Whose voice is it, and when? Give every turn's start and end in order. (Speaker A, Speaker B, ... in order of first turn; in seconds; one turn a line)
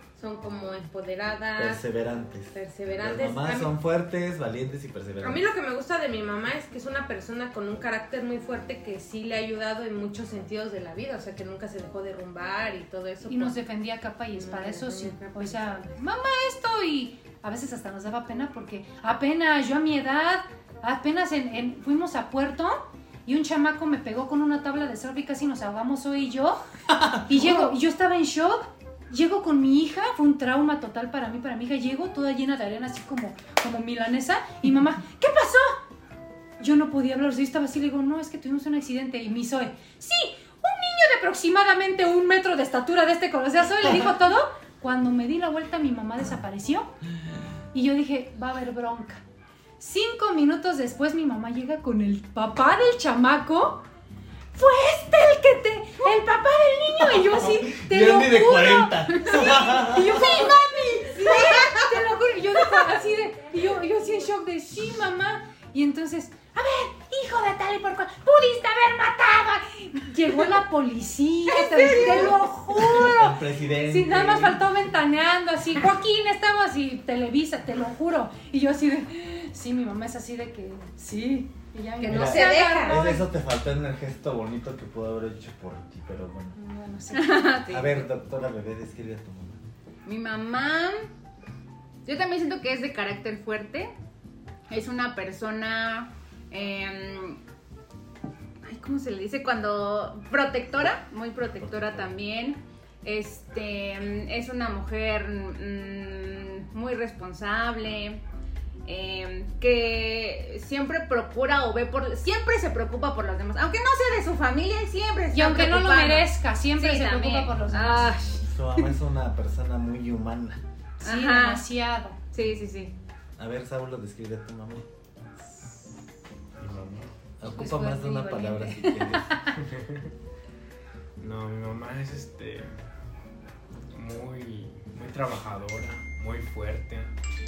Speaker A: 0.1-1.8
Speaker B: 1.5-5.4
Speaker A: 2.5-3.7
Speaker A: 5.2-13.6
Speaker C: 13.2-26.6
Speaker A: 14.3-15.5
Speaker B: 27.0-27.7
Speaker C: 27.2-35.8
Speaker C: 36.6-46.9
Speaker C: 47.7-49.2
Speaker C: 49.8-53.8
Speaker C: 54.5-83.2
Speaker B: 57.0-60.5
Speaker D: 71.6-72.3
Speaker B: 72.8-74.7
Speaker A: 82.0-83.1
Speaker B: 82.0-86.6
Speaker C: 86.5-87.5
Speaker D: 87.1-88.1
Speaker B: 87.7-89.6
Speaker D: 90.0-91.1
Speaker D: 92.0-93.9
Speaker D: 94.7-97.4
Speaker D: 98.6-108.2
Speaker B: 101.6-102.2
Speaker D: 108.8-118.5
Speaker C: 115.3-118.2
Speaker B: 118.0-120.6
Speaker C: 121.0-122.2
Speaker D: 121.0-121.7
Speaker D: 122.3-122.9
Speaker B: 123.4-124.9
Speaker B: 126.6-129.4
Speaker C: 127.4-129.6
Speaker E: 129.6-130.1
Speaker E: 131.2-132.7
Speaker E: 133.9-137.1